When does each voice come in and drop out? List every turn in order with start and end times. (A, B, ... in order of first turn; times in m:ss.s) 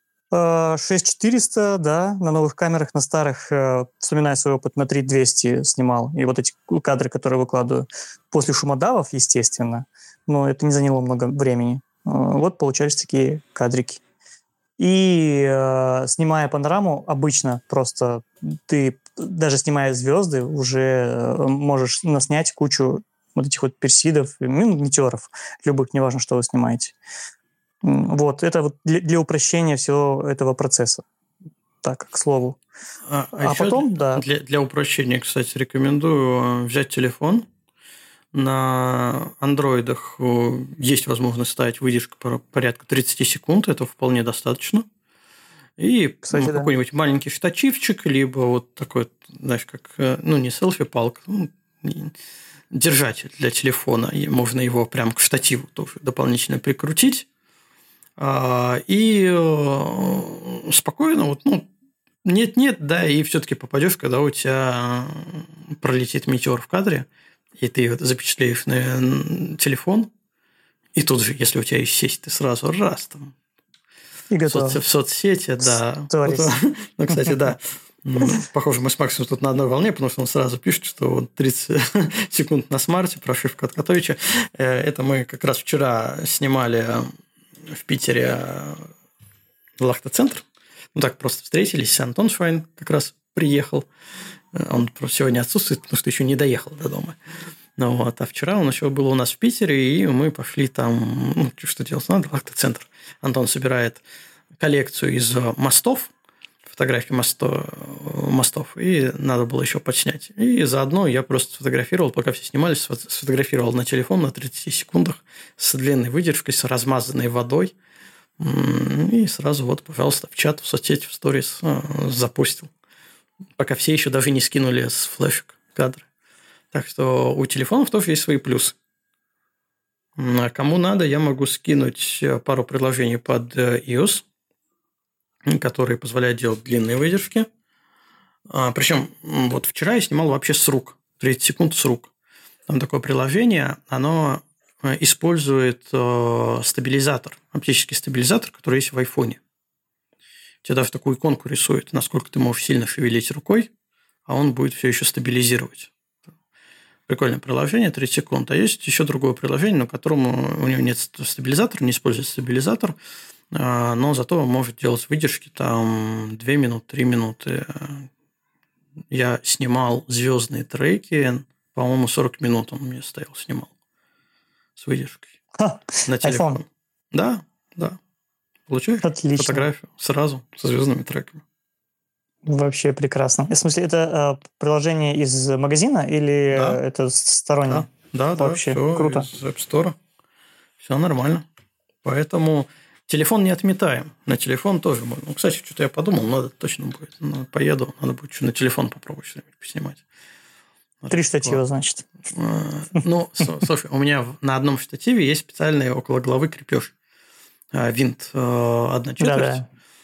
0:00.3-0:14.0 A
0:14.8-0:27.0 A
0:27.8-0:31.0 A
0:31.8-0:32.6 A
0:33.1-0:37.4 B
0:33.4-0:34.2 A
0:38.3-0:44.8 B
0:45.8-0:52.1 B
0:46.2-0:46.7 A
0:52.7-0:57.3 B
0:58.2-1:01.7 B
1:02.2-1:10.1 B
1:10.9-1:13.3 B
1:14.3-1:14.8 A
1:14.5-1:27.1 B
1:16.1-1:16.5 A
1:27.6-1:28.9 B
1:29.8-1:33.9 B
1:34.5-1:37.2 B
1:37.8-1:44.0 B
1:44.6-1:46.1 B
1:46.6-1:57.7 B
1:58.4-2:02.7 B
2:03.6-2:06.1 B
2:06.7-2:08.8 B
2:10.2-2:14.2 B
2:15.4-2:17.5 B
2:18.5-2:22.1 B
2:22.7-2:29.4 B
2:30.6-2:33.7 B
2:34.2-2:35.9 B
2:37.1-2:43.0 B
2:43.5-2:48.1 B
2:49.1-2:53.7 B
2:54.8-2:55.4 B
2:55.6-2:56.6 A
2:56.0-2:58.0 B
2:58.7-3:01.4 B
2:59.0-2:59.7 A
3:02.4-3:09.3 A
3:06.5-3:06.8 B
3:07.6-3:10.0 B
3:10.8-3:11.5 B
3:12.0-3:20.0 B
3:21.0-3:21.6 B
3:21.1-3:22.0 A
3:22.3-3:26.9 B
3:27.7-3:29.6 B
3:29.2-3:29.6 A